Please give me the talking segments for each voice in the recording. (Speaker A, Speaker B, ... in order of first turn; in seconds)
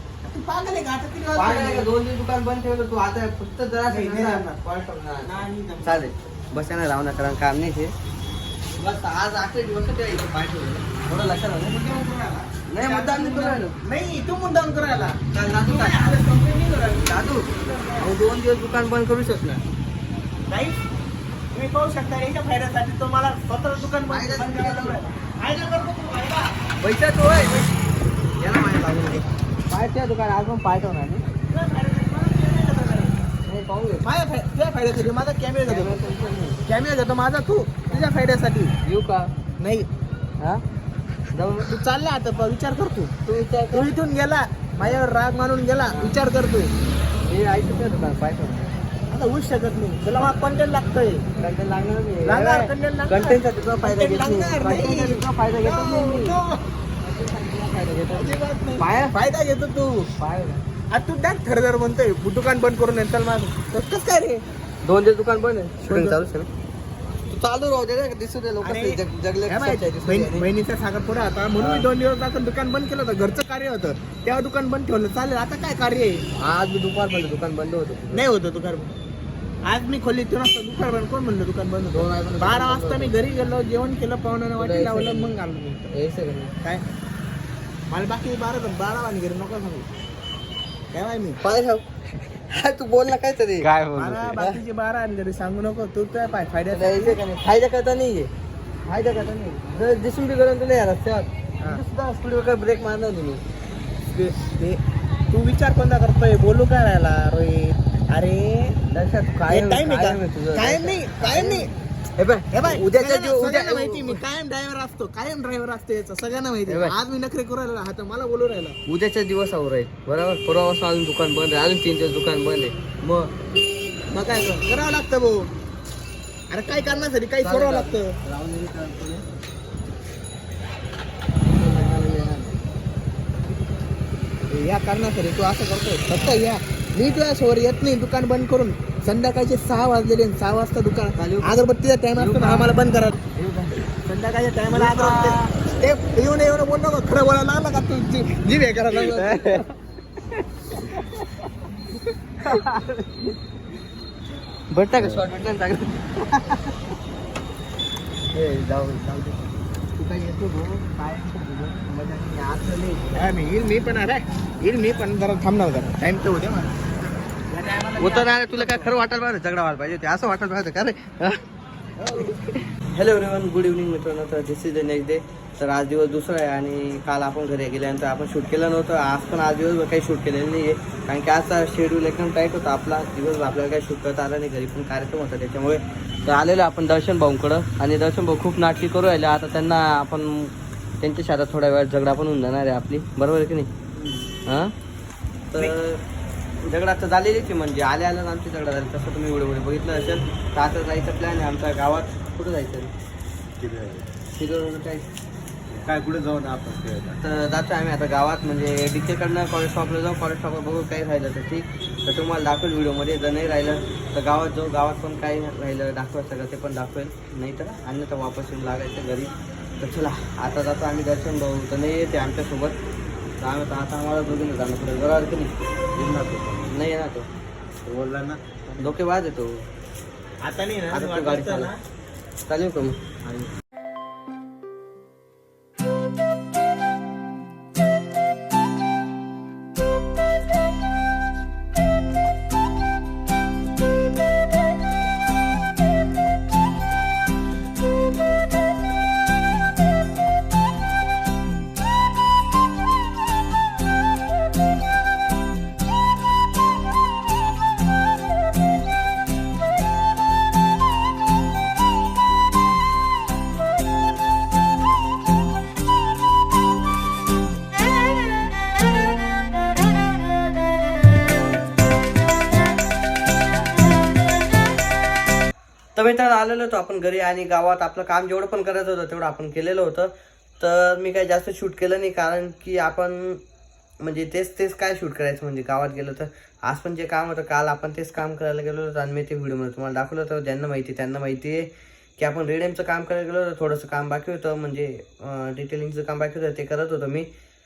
Speaker A: 0.2-1.9, 3.9-4.6, 5.2-6.1, 11.6-18.1, 20.5-20.8, 21.5-26.5, 31.5-33.2, 34.0-36.0, 36.7-38.7, 39.6-39.9, 41.6-43.1, 43.7-46.7, 49.1-51.2, 52.2-56.6, 58.1-60.1, 60.9-64.4, 65.9-66.2, 68.6-76.2, 78.1-78.9, 79.6-85.9, 87.9-89.9, 90.9-91.4, 94.0-97.2, 104.4-104.8, 105.3-108.8, 109.5-111.7, 112.5-118.8, 124.1-125.5, 126.5-128.1, 134.5-143.2, 144.1-149.6, 163.2-166.8, 167.5-168.9, 172.0-172.3, 193.9-194.3, 228.7-229.0, 230.4-231.8
Speaker B: 1.4-5.3, 5.8-7.9, 8.8-11.7, 12.7-13.8, 15.3-16.2, 17.0-17.5, 18.0-19.6, 24.1-25.0, 26.8-27.8, 28.4-31.3, 33.5-34.1, 35.7-36.6, 38.9-39.3, 41.3-41.7, 43.3-43.9, 45.9-46.2, 47.2-48.7, 51.4-56.4, 57.0-59.2, 60.2-60.6, 64.8-66.5, 67.3-70.5, 71.6-71.9, 76.4-78.2, 81.9-83.1, 84.6-85.3, 85.9-86.5, 91.4-91.8, 92.5-93.7, 96.7-98.3, 98.8-103.4, 108.9-114.2, 116.7-117.0, 118.9-123.3, 126.8-129.2, 131.5-132.5, 141.2-141.6, 142.2-142.7, 143.3-143.9, 144.7-145.4, 148.9-149.7, 150.7-151.3, 152.4-153.3, 154.7-156.7, 158.3-159.4, 160.0-163.3, 168.0-171.4, 172.1-193.7, 194.5-194.7, 195.5-196.0, 196.7-202.9, 204.3-205.1, 207.2-222.8, 223.4-225.6, 226.7-227.3, 228.8-229.6, 230.9-231.7, 232.5-233.0, 275.9-283.4, 284.0-297.3
Speaker C: 93.6-94.4, 155.0-155.3, 203.6-204.1, 205.7-207.2, 225.9-226.7, 227.9-228.4